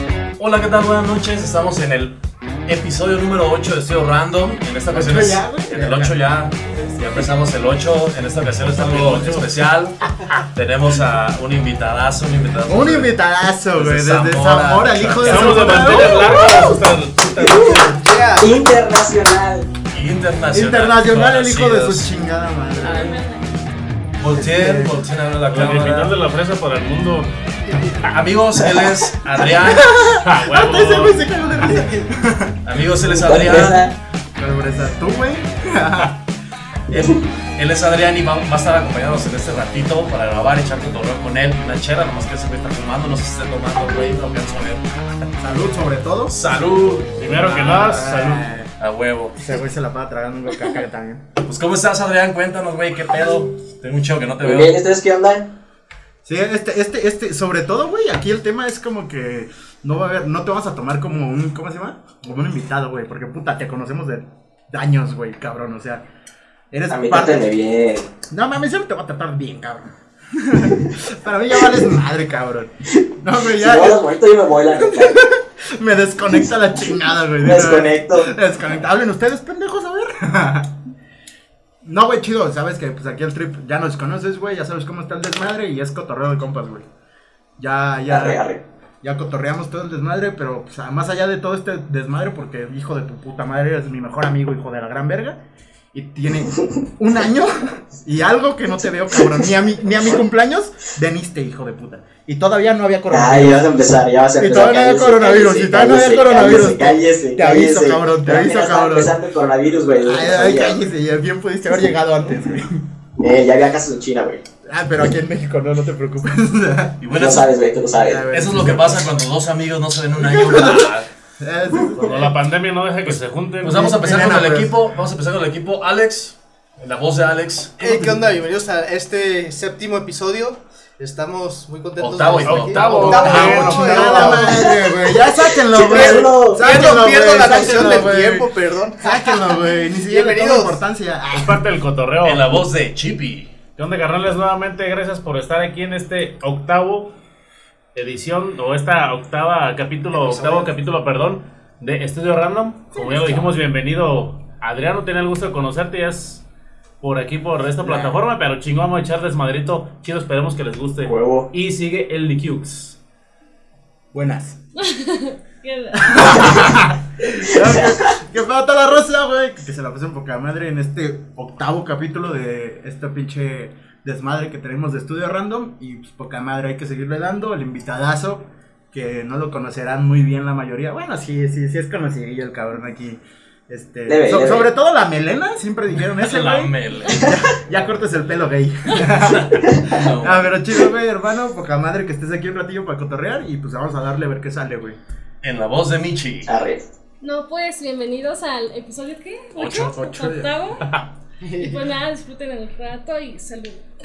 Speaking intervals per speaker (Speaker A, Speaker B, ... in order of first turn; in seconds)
Speaker A: 0.4-2.1, 2.6-13.1, 13.7-16.4, 19.9-22.1, 24.2-26.1, 28.0-29.9, 32.6-33.8, 37.5-44.8, 46.3-49.4, 51.4-54.7, 117.0-117.5, 118.3-121.1, 123.0-127.8, 132.0-134.2, 142.2-143.5, 186.2-187.9, 189.2-190.6, 195.4-196.5, 199.6-199.9
Speaker B: 4.9-6.2, 12.7-16.8, 20.5-23.2, 24.5-24.9, 29.4-32.6, 34.4-36.2, 45.4-46.4, 47.3-48.7, 49.4-51.2, 56.2-66.0, 66.7-67.5, 68.3-74.0, 74.8-80.7, 81.8-86.8, 87.6-88.4, 89.0-95.4, 95.9-103.7, 104.4-109.2, 110.0-112.8, 114.6-117.0, 118.0-119.0, 120.1-122.3, 123.9-124.7, 133.2-141.6, 157.8-158.2, 164.1-164.6, 165.9-195.0, 199.7-200.5
Speaker C: 8.9-9.2, 15.2-18.0, 25.5-27.3, 30.2-31.2, 47.2-48.5, 121.8-124.0, 132.4-134.3, 141.3-142.6, 143.8-147.1, 147.9-156.4, 157.0-162.9
Speaker D: 17.7-18.5, 127.8-135.2, 135.8-140.8, 201.5-201.8
Speaker E: 18.4-19.7, 33.1-33.9, 54.4-55.5, 66.9-68.1, 73.5-75.2, 77.4-78.3, 88.1-88.6, 99.2-99.4, 103.1-110.8, 113.2-114.4, 117.1-118.2, 135.7-136.7, 161.0-161.5, 167.3-167.9, 184.1-184.7, 189.6-190.0, 196.4-196.8
Speaker F: 22.8-23.5, 164.8-166.7, 197.2-200.8, 201.6-203.8